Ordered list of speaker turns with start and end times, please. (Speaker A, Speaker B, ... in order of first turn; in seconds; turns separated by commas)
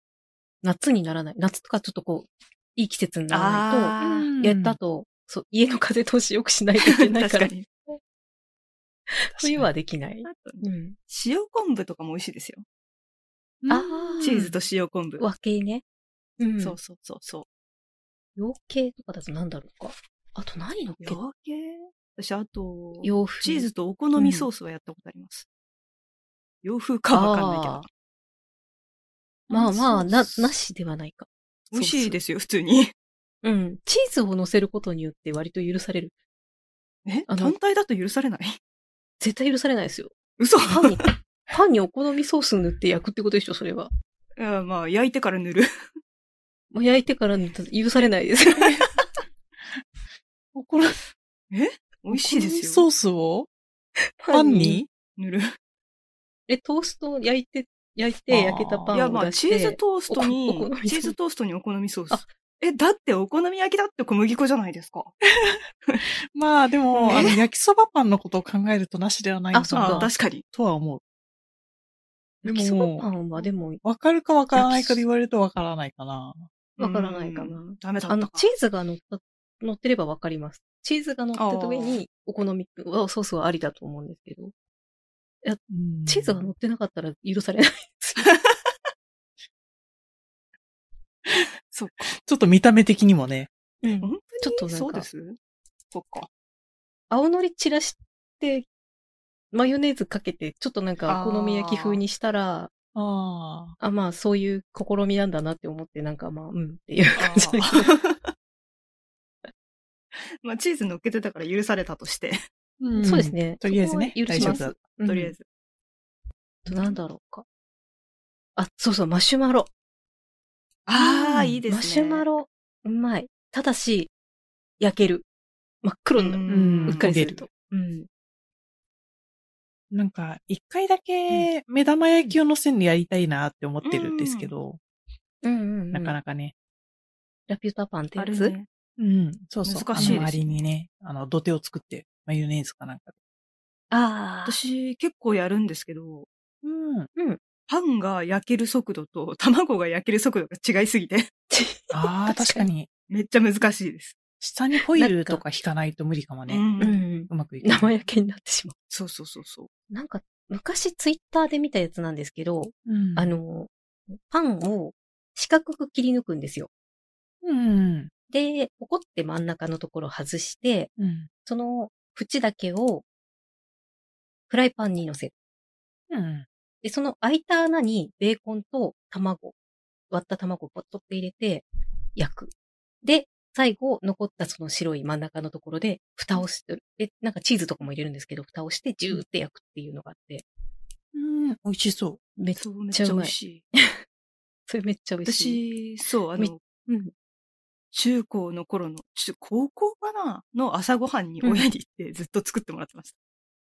Speaker A: 0.6-8.0, Speaker B: 3.3-4.3, Speaker C: 4.2-4.8, Speaker B: 6.8-7.7, Speaker A: 9.1-10.9, Speaker C: 9.3-9.7, Speaker B: 10.2-12.6, Speaker C: 13.6-14.5, Speaker A: 13.7-14.4, Speaker B: 14.2-15.2, Speaker A: 15.2-15.8, Speaker A: 16.4-16.8, Speaker B: 16.6-17.4, Speaker A: 18.4-21.2, Speaker B: 21.0-25.5, Speaker A: 23.0-24.5, Speaker B: 26.6-27.9, Speaker A: 27.1-27.9, Speaker B: 29.5-30.5, Speaker A: 29.5-32.2, Speaker B: 31.7-32.9, Speaker A: 33.4-36.1, Speaker B: 37.0-38.6, Speaker A: 37.3-37.5, Speaker A: 39.2-40.1, Speaker B: 40.4-41.1, Speaker A: 40.7-43.9, Speaker B: 44.4-45.7, Speaker A: 46.7-48.8, Speaker C: 50.5-51.0, Speaker B: 51.5-52.9, Speaker C: 52.1-53.5, Speaker A: 54.2-54.8, Speaker C: 54.3-54.9, Speaker B: 55.1-55.5, Speaker A: 56.5-61.1, Speaker C: 58.3-58.9, Speaker B: 58.9-65.1, Speaker C: 65.3-71.0, Speaker B: 67.0-67.4, Speaker A: 67.1-67.3, Speaker A: 69.5-70.1, Speaker B: 69.7-70.4, Speaker A: 72.4-73.8, Speaker C: 72.4-73.1, Speaker C: 73.8-76.5, Speaker A: 74.5-75.0, Speaker B: 76.8-78.5, Speaker A: 76.8-84.5, Speaker B: 81.3-82.0, Speaker A: 85.4-88.3, Speaker C: 85.7-86.5, Speaker B: 88.2-88.6, Speaker B: 91.7-92.2, Speaker C: 92.2-93.5, Speaker A: 93.8-95.0, Speaker B: 94.0-95.4, Speaker B: 95.9-96.3, Speaker A: 97.1-98.7, Speaker A: 99.5-102.7, Speaker B: 101.1-102.0, Speaker C: 102.9-103.8, Speaker A: 103.8-107.9, Speaker B: 107.2-108.3, Speaker B: 110.4-112.4, Speaker C: 112.8-114.8, Speaker A: 113.0-115.3, Speaker B: 114.3-115.4, Speaker A: 116.7-117.4, Speaker A: 118.5-119.7, Speaker B: 120.9-122.2, Speaker C: 121.0-121.6, Speaker A: 121.7-124.1, Speaker A: 124.8-125.2, Speaker A: 125.8-128.1, Speaker B: 126.2-127.0, Speaker C: 126.5-127.5, Speaker C: 129.9-134.8, Speaker B: 133.8-134.5, Speaker A: 135.4-136.2, Speaker C: 135.9-136.5, Speaker A: 137.5-138.5, Speaker B: 138.2-138.7, Speaker C: 139.0-143.1, Speaker B: 139.6-140.4, Speaker A: 139.9-140.3, Speaker A: 143.9-144.6, Speaker B: 144.4-146.3, Speaker C: 146.6-147.1, Speaker B: 147.7-151.3, Speaker A: 151.5-152.7, Speaker C: 151.9-152.9, Speaker B: 153.1-154.2, Speaker C: 154.4-156.7, Speaker A: 154.9-155.4, Speaker B: 156.5-157.0, Speaker A: 156.8-158.7, Speaker C: 157.3-157.9, Speaker B: 158.9-159.7, Speaker A: 159.9-166.7, Speaker C: 162.8-163.4, Speaker C: 167.4-168.1, Speaker A: 168.3-170.9, Speaker C: 171.0-171.3, Speaker A: 171.4-173.0, Speaker A: 174.5-175.3, Speaker C: 176.1-176.5, Speaker A: 176.8-179.5, Speaker A: 180.1-181.6, Speaker A: 182.2-190.4, Speaker C: 191.1-192.2, Speaker A: 192.4-194.0, Speaker B: 192.6-193.6, Speaker A: 194.7-195.6, Speaker B: 195.2-196.6, Speaker A: 196.4-197.1, Speaker B: 197.9-203.1, Speaker A: 201.4-201.7